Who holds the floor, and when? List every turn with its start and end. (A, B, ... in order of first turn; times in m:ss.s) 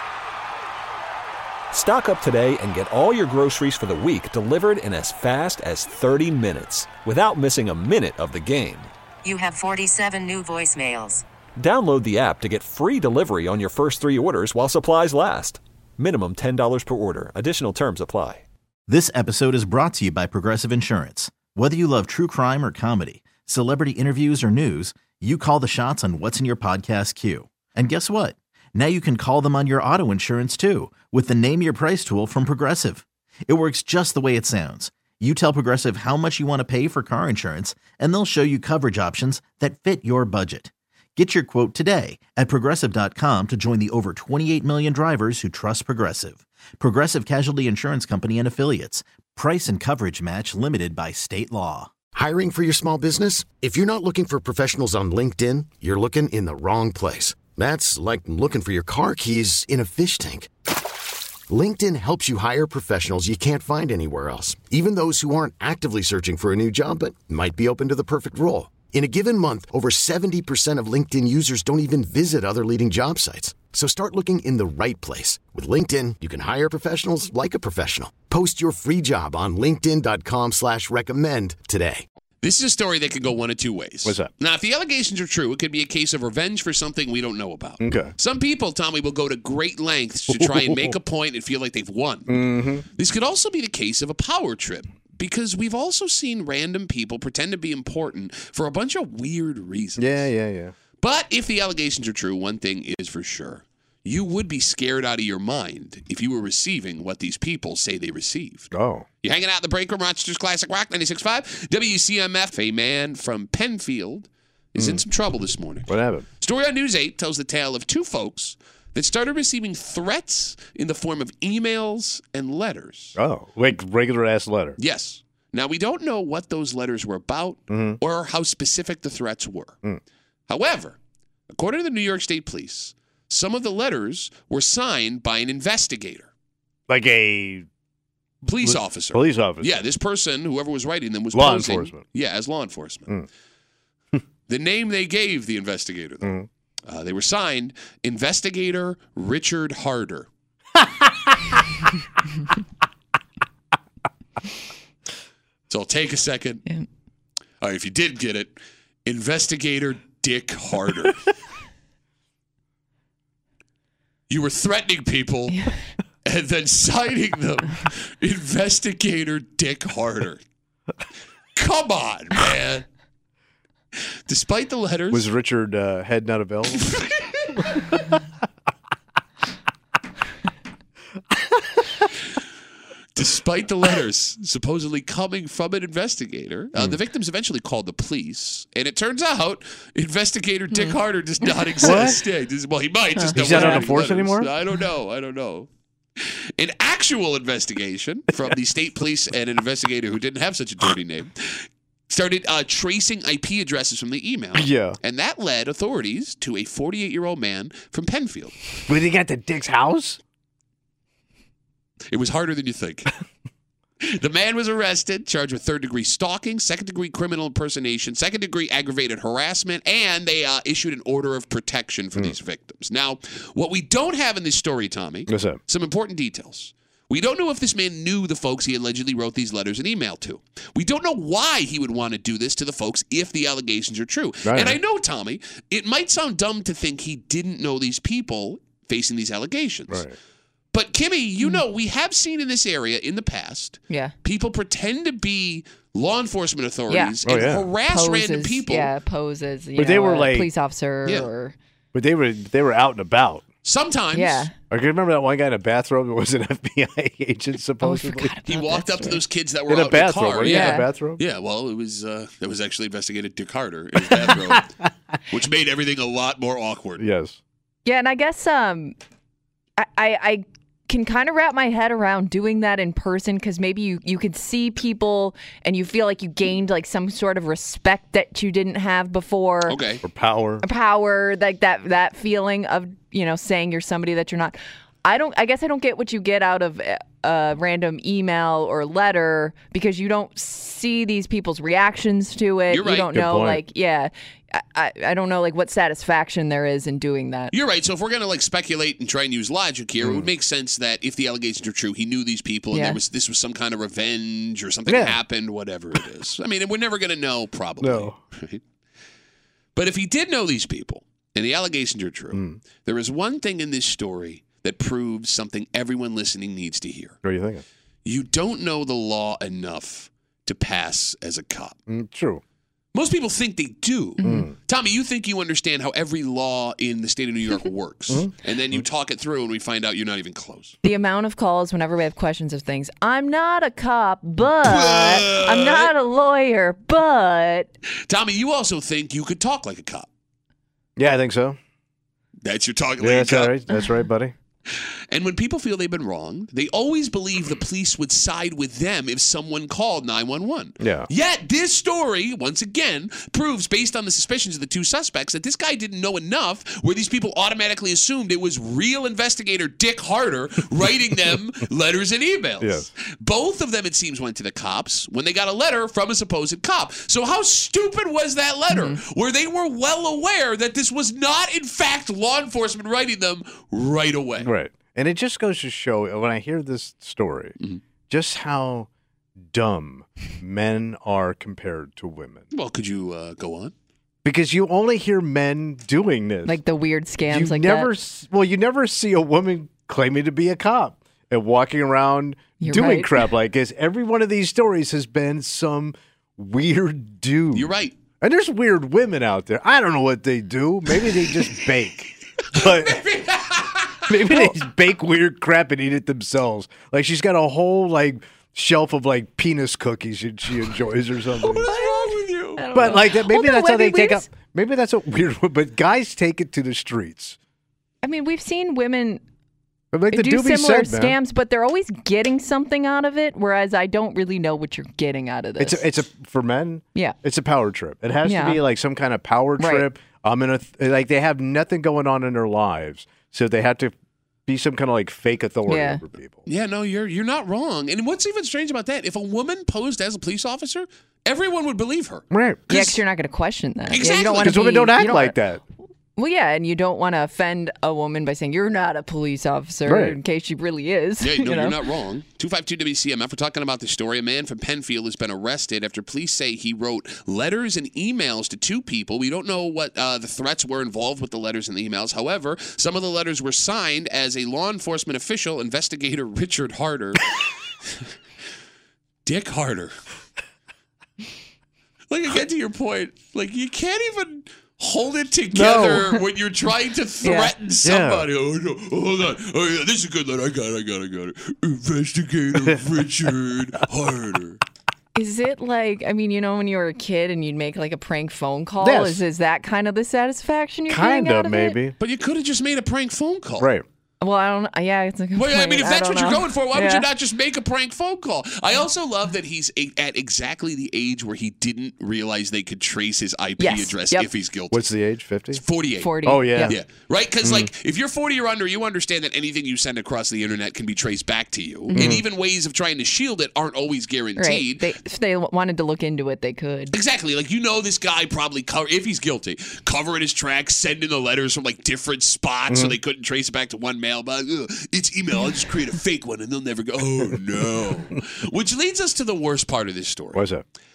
0:01.7-0:08.9 A
0:09.2-0:11.2 B
0:11.6-0:18.4 A
0:18.9-0:51.9 C
0:52.1-1:00.5 D
1:01.5-1:22.0 D
1:22.4-1:40.2 E
1:24.0-1:24.3 F
1:27.8-1:28.1 F
1:30.3-1:30.9 F
1:32.3-1:32.8 F
1:40.0-1:40.7 F
1:41.0-1:48.7 E
1:48.7-1:49.0 F
1:49.2-2:03.2 E
1:54.8-1:55.0 F
1:55.9-1:56.2 F
2:03.2-2:04.8 F
2:04.8-2:09.8 E
2:07.7-2:08.0 F
2:10.5-2:11.0 E
2:11.5-2:16.3 E
2:16.9-2:17.7 F
2:18.4-2:23.1 E
2:18.6-2:19.7 F
2:21.3-2:22.0 F
2:24.5-2:26.3 E
2:26.2-2:26.5 F
2:26.9-2:30.3 E
2:30.8-2:31.4 F
2:35.7-2:36.6 E
2:37.6-2:41.2 E
2:44.3-2:45.7 E
2:46.2-2:50.4 E
2:51.5-2:52.8 E
2:54.3-2:55.3 E
2:55.1-2:57.0 F
2:56.8-2:57.1 E
3:03.1-3:15.7 E
3:11.8-3:12.2 F
3:13.2-3:13.9 G
3:13.3-3:14.5 F
3:16.2-3:28.6 E
3:24.5-3:25.0 F
3:28.9-3:30.2 F
3:32.1-3:33.1 E
3:34.0-4:00.0 E
3:45.3-3:45.6 F
3:54.4-3:54.8 F
3:59.9-4:00.2 F
4:00.7-4:08.9 E
4:06.9-4:07.2 G
4:07.2-4:07.7 F
4:07.9-4:11.6 G
4:09.8-4:10.5 F
4:11.9-4:13.4 F
4:13.6-4:14.5 E
4:14.1-4:14.5 G
4:14.7-4:18.4 F
4:17.8-4:19.2 G
4:18.5-4:24.7 E
4:19.7-4:21.2 F
4:20.4-4:20.9 G
4:25.3-4:27.0 E
4:27.0-4:27.4 F
4:27.8-4:28.9 G
4:29.8-4:39.8 G
4:39.7-4:40.0 E
4:40.0-4:40.6 F
4:40.6-4:57.5 G
4:52.7-4:53.1 E
4:53.1-4:53.6 F
4:57.5-5:08.6 E
5:00.0-5:00.3 F
5:02.7-5:03.0 G
5:04.9-5:05.2 F
5:07.8-5:08.2 F
5:09.8-5:17.2 E
5:12.3-5:12.6 F
5:17.2-5:17.6 F
5:18.0-5:21.8 E
5:21.9-5:22.4 F
5:22.9-5:30.8 E
5:24.2-5:24.5 G
5:24.2-5:24.5 F
5:28.1-5:28.8 F
5:30.8-5:37.7 G
5:34.6-5:35.9 E
5:38.0-5:40.1 E
5:41.0-5:41.6 F
5:42.4-5:43.6 E
5:43.0-5:44.3 F
5:44.7-6:14.5 E
5:50.8-5:51.1 F
6:02.6-6:02.9 F
6:08.7-6:09.0 G
6:14.4-6:17.6 F
6:18.1-6:18.9 F
6:19.5-6:22.4 F
6:22.5-6:23.7 E
6:24.2-6:26.6 F
6:26.4-6:27.9 G
6:27.3-6:43.0 F
6:32.6-6:33.2 G
6:37.5-6:38.0 E
6:42.5-6:44.5 E
6:44.1-6:51.7 F
6:51.4-6:52.7 E
6:51.6-6:54.2 G
6:52.7-6:57.4 F
6:58.0-6:59.2 G
6:59.9-7:01.2 F
7:00.1-7:05.8 G
7:05.6-7:13.9 F
7:08.2-7:08.6 G
7:09.6-7:09.9 G
7:14.4-7:16.4 F
7:15.7-7:16.0 G
7:16.4-7:23.0 E
7:22.3-7:22.6 F
7:22.7-7:25.4 G
7:23.9-7:24.6 E
7:24.4-7:25.6 F
7:26.2-7:31.8 G
7:29.8-7:30.2 F
7:31.2-7:48.1 E
7:49.2-7:49.9 E
7:52.1-8:04.6 E
7:55.5-7:56.1 F
7:57.2-7:57.5 G
7:57.8-7:58.3 F
8:05.1-8:11.8 G
8:08.8-8:09.2 F
8:10.9-8:12.0 F
8:12.0-8:13.7 E
8:13.6-8:13.8 F
8:14.2-8:17.1 G
8:15.4-8:24.9 E
8:23.6-8:24.3 G
8:24.7-8:25.6 F
8:25.5-8:34.9 E
8:26.0-8:26.8 G
8:26.2-8:26.8 F
8:27.4-8:27.7 F
8:31.9-8:32.2 G
8:32.0-8:32.2 F
8:34.4-8:36.9 G
8:36.9-8:50.4 E
8:42.7-8:43.0 F
8:50.3-8:50.6 F